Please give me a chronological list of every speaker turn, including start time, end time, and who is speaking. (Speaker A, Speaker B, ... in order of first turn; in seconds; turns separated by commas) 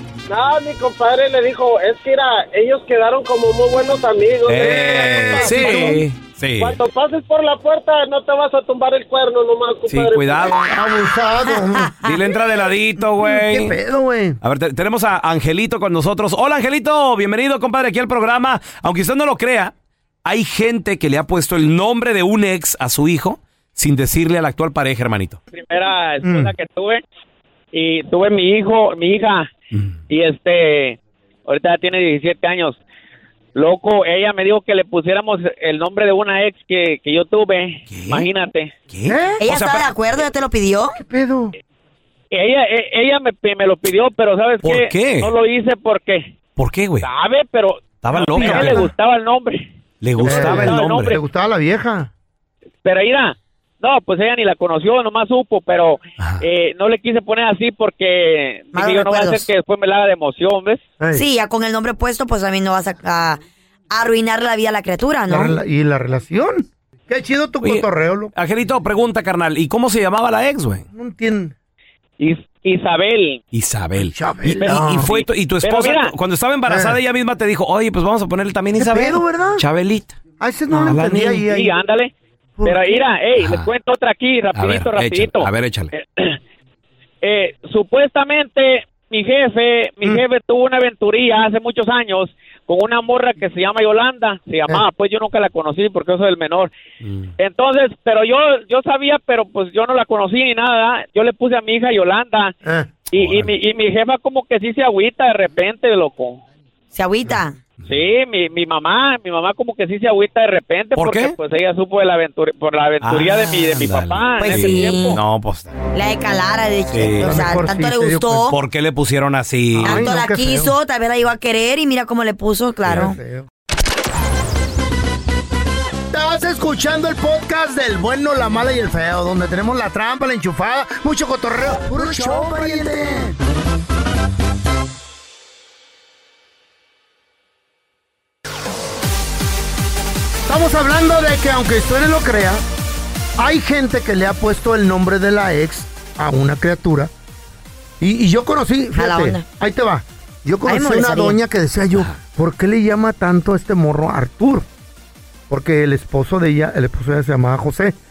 Speaker A: 0.3-6.0, Speaker B: 4.5-6.8, Speaker C: 4.9-6.0, Speaker A: 6.6-10.6, Speaker B: 9.9-10.6, Speaker C: 10.5-11.9, Speaker B: 12.0-13.8, Speaker C: 13.2-14.4, Speaker B: 14.4-19.7, Speaker B: 20.2-25.4, Speaker D: 25.5-27.0, Speaker C: 26.2-26.5, Speaker D: 27.7-29.5, Speaker D: 30.1-32.8, Speaker D: 33.5-38.7, Speaker B: 37.9-38.3, Speaker B: 38.9-39.9, Speaker C: 39.1-39.4, Speaker E: 39.4-41.0, Speaker C: 40.9-41.5, Speaker D: 42.3-46.3, Speaker B: 44.6-45.3, Speaker B: 46.6-47.1, Speaker D: 47.0-49.7, Speaker B: 48.0-48.9, Speaker C: 48.3-48.9, Speaker B: 50.0-51.2, Speaker D: 50.2-51.2, Speaker C: 50.2-52.1, Speaker D: 52.8-60.8, Speaker E: 58.7-59.5, Speaker C: 61.0-61.2, Speaker E: 61.1-63.4, Speaker E: 63.9-65.6, Speaker C: 65.3-68.3, Speaker B: 67.6-70.9, Speaker C: 70.9-71.5, Speaker D: 72.2-73.4, Speaker B: 73.5-80.2, Speaker C: 74.0-75.1, Speaker D: 74.6-76.1, Speaker C: 76.7-77.0, Speaker C: 78.7-79.6, Speaker C: 80.4-81.8, Speaker B: 80.7-81.4, Speaker D: 81.4-82.1, Speaker C: 82.6-83.1, Speaker D: 82.6-86.3, Speaker B: 83.4-83.7, Speaker B: 84.5-85.9, Speaker D: 87.2-96.7, Speaker B: 97.0-97.3, Speaker D: 97.4-102.5, Speaker C: 102.6-102.9, Speaker D: 103.1-106.4, Speaker B: 103.1-103.5, Speaker E: 106.9-107.6, Speaker D: 107.9-115.2, Speaker B: 111.0-111.4, Speaker B: 113.0-115.8, Speaker E: 114.4-115.2, Speaker E: 115.9-118.6, Speaker B: 116.9-117.5, Speaker C: 117.2-118.5, Speaker B: 118.5-120.1, Speaker C: 119.8-120.7, Speaker E: 119.8-123.2, Speaker C: 122.9-123.5, Speaker C: 126.1-133.4, Speaker E: 132.1-132.9, Speaker C: 140.5-142.6, Speaker C: 143.4-147.1, Speaker C: 148.0-154.7, Speaker E: 148.9-149.4, Speaker E: 150.6-151.4, Speaker C: 155.5-157.9